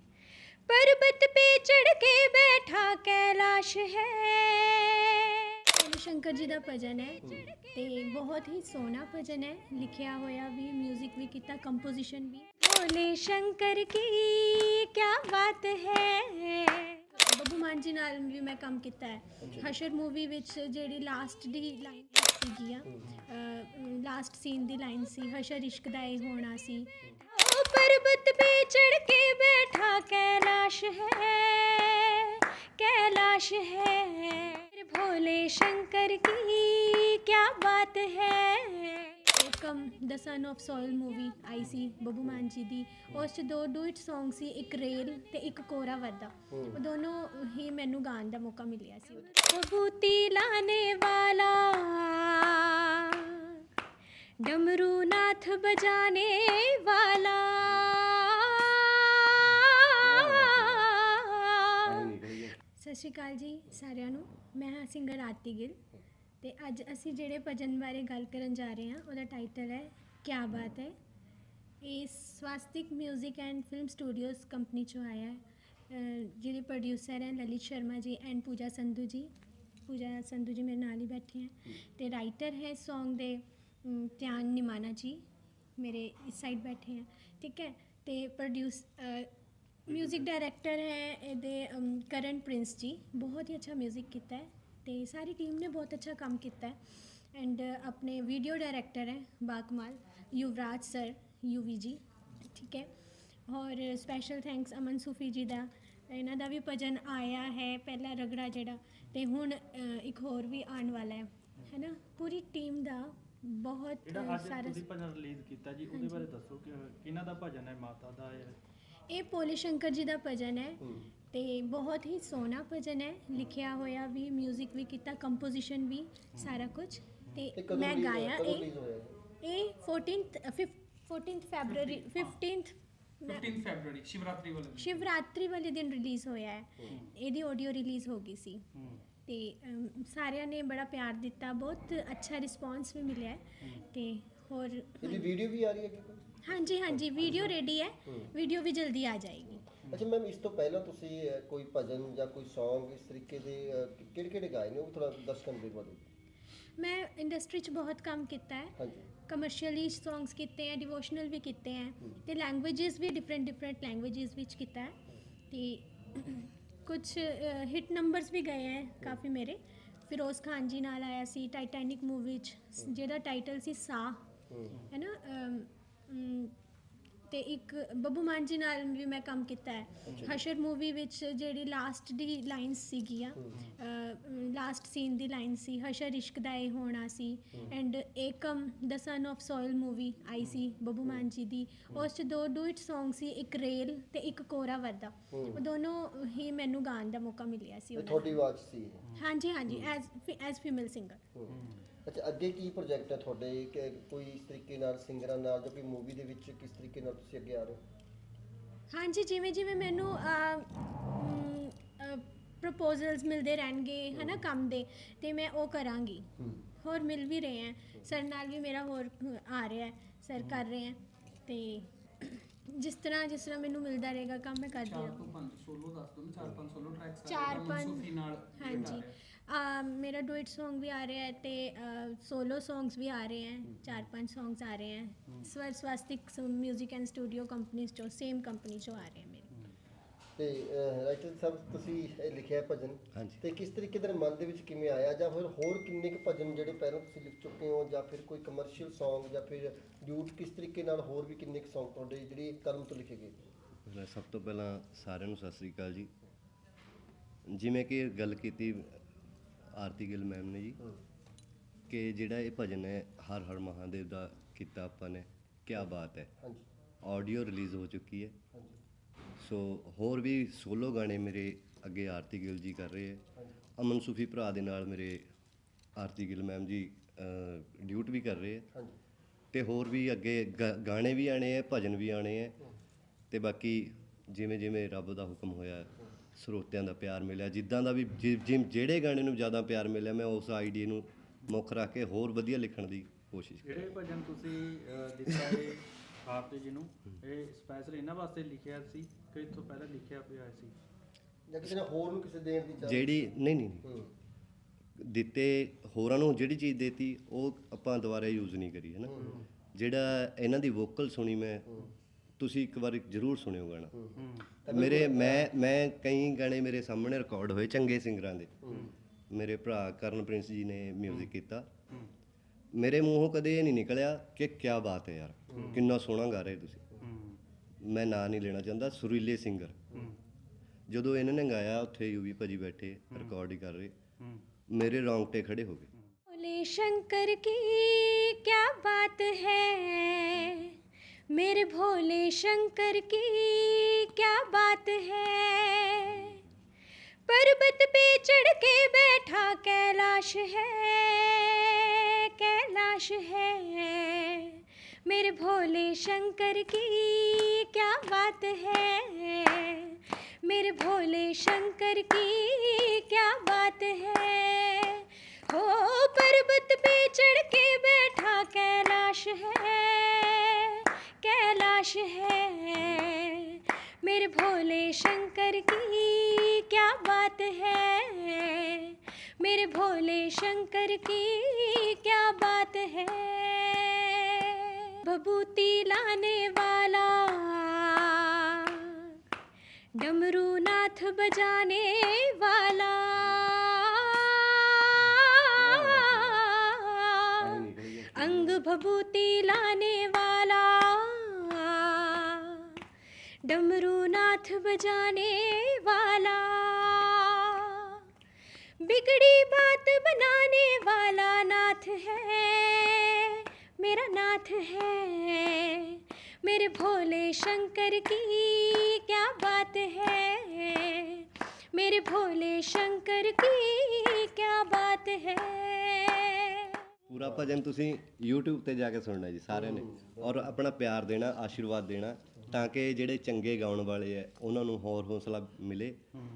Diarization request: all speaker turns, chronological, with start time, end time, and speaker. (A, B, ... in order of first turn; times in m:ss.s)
0:00.7-0:53.6 A
0:07.2-0:07.5 B
0:19.4-0:19.7 B
0:22.9-0:23.2 B
0:46.5-0:46.8 B
0:54.4-1:02.2 A
1:00.0-1:00.9 C
1:01.8-1:02.5 C
1:02.7-1:05.8 A
1:06.4-1:10.9 A
1:11.8-1:19.3 A
1:19.8-1:25.2 A
1:25.8-1:29.3 A
1:29.8-1:36.8 A
1:37.3-1:42.9 A
1:43.5-1:54.8 A
1:54.0-1:58.6 D
1:55.9-1:56.2 A
1:59.1-2:08.7 A
2:00.8-2:01.1 B
2:07.6-2:09.2 B
2:09.4-2:13.5 A
2:11.7-2:12.3 E
2:13.3-2:15.0 E
2:14.8-2:18.6 A
2:18.7-2:19.0 D
2:19.2-2:25.2 A
2:25.0-2:27.5 B
2:26.4-2:29.7 A
2:28.0-2:28.3 B
2:29.8-2:36.0 B
2:36.8-2:45.0 A
2:38.8-2:39.1 B
2:45.5-2:54.2 A
2:54.5-2:54.8 B
2:54.9-2:56.5 A
2:57.3-3:18.4 A
3:00.1-3:00.4 B
3:03.4-3:03.6 B
3:15.3-3:15.6 B
3:17.9-3:19.1 B
3:19.1-3:21.2 A
3:21.3-3:27.8 B
3:28.9-3:36.3 A
3:34.1-3:34.4 B
3:36.8-3:45.3 A
3:44.8-3:49.2 E
3:47.2-3:59.5 A
4:00.4-4:13.4 B
4:03.1-4:03.4 C
4:13.8-4:16.1 C
4:17.5-4:19.0 C
4:19.7-4:20.8 C
4:21.9-4:26.3 C
4:27.0-4:28.4 C
4:29.4-4:33.2 C
4:33.8-4:35.2 C
4:36.0-4:38.7 C
4:39.5-4:42.6 C
4:43.3-4:53.9 C
4:53.6-5:00.8 D
5:01.5-5:03.2 B
5:02.8-5:03.8 C
5:03.8-5:04.1 B
5:05.0-5:11.8 C
5:09.1-5:09.4 B
5:12.4-5:13.9 C
5:13.9-5:15.5 B
5:14.2-5:14.4 D
5:14.7-5:18.7 C
5:18.6-5:18.9 B
5:19.3-5:21.7 C
5:22.7-5:26.9 C
5:25.5-5:25.8 B
5:27.0-5:27.4 D
5:27.8-5:29.8 C
5:30.9-5:33.9 C
5:34.7-5:35.9 C
5:36.3-5:40.8 A
5:41.3-5:46.4 A
5:47.2-6:29.1 A
6:30.0-6:42.7 A
6:35.1-6:36.4 C
6:37.4-6:38.6 C
6:43.4-6:48.0 A
6:48.8-7:06.8 A
7:07.1-7:16.0 C
7:07.2-7:07.5 B
7:09.5-7:10.4 B